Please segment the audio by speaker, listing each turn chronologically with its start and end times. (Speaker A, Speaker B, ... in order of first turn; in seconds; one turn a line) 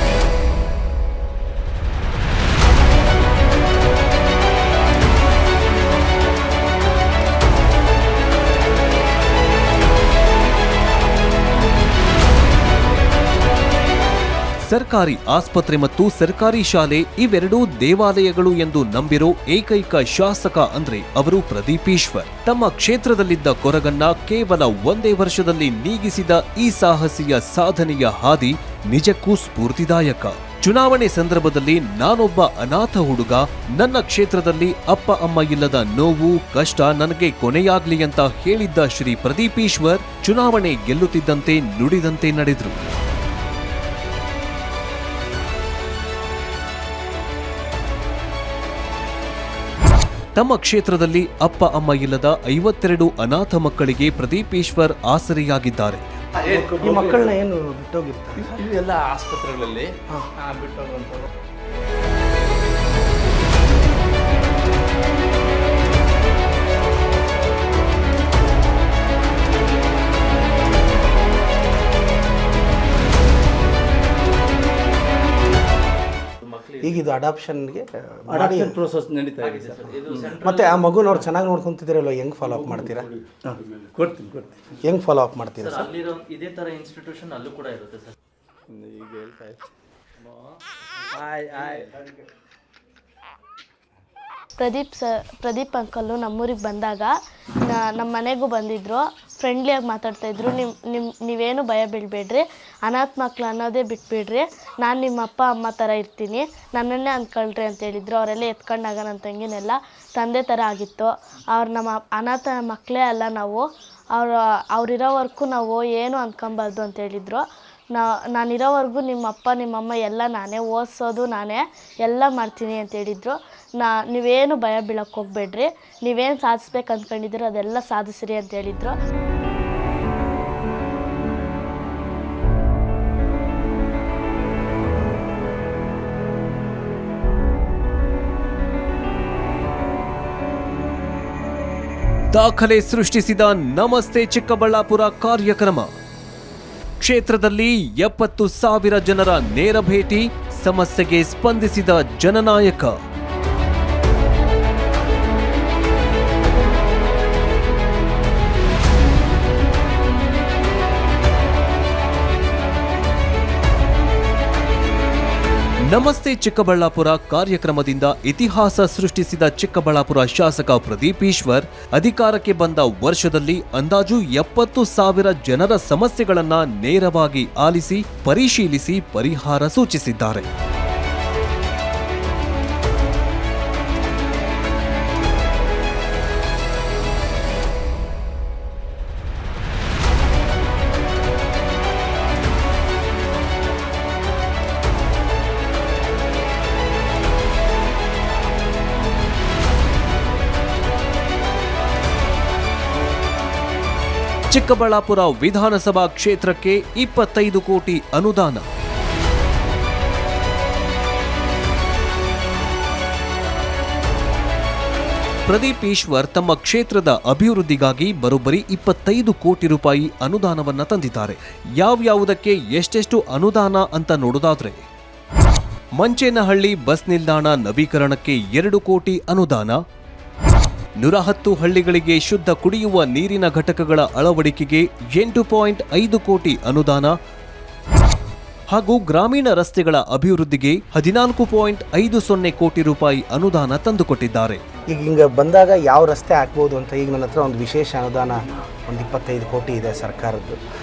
Speaker A: 14.6-42.8
Speaker A: 50.4-56.0
Speaker B: 56.4-57.3
Speaker C: 56.5-58.6
Speaker B: 58.4-59.9
Speaker B: 60.5-61.2
Speaker D: 76.5-76.9
Speaker C: 76.8-78.8
Speaker B: 78.3-80.4
Speaker D: 79.4-81.0
Speaker C: 80.4-83.1
Speaker B: 82.5-83.1
Speaker B: 83.9-84.6
Speaker C: 84.8-85.9
Speaker D: 85.7-88.1
Speaker B: 88.7-89.6
Speaker B: 91.2-91.8
Speaker E: 94.6-128.9
Speaker A: 142.3-145.9
Speaker A: 147.0-152.9
Speaker A: 165.9-180.5
Speaker A: 204.5-208.7
Speaker A: 215.5-224.8
Speaker A: 226.0-229.8
Speaker A: 231.0-237.1
Speaker A: 238.7-244.6
Speaker C: 244.9-248.4
Speaker C: 248.9-250.6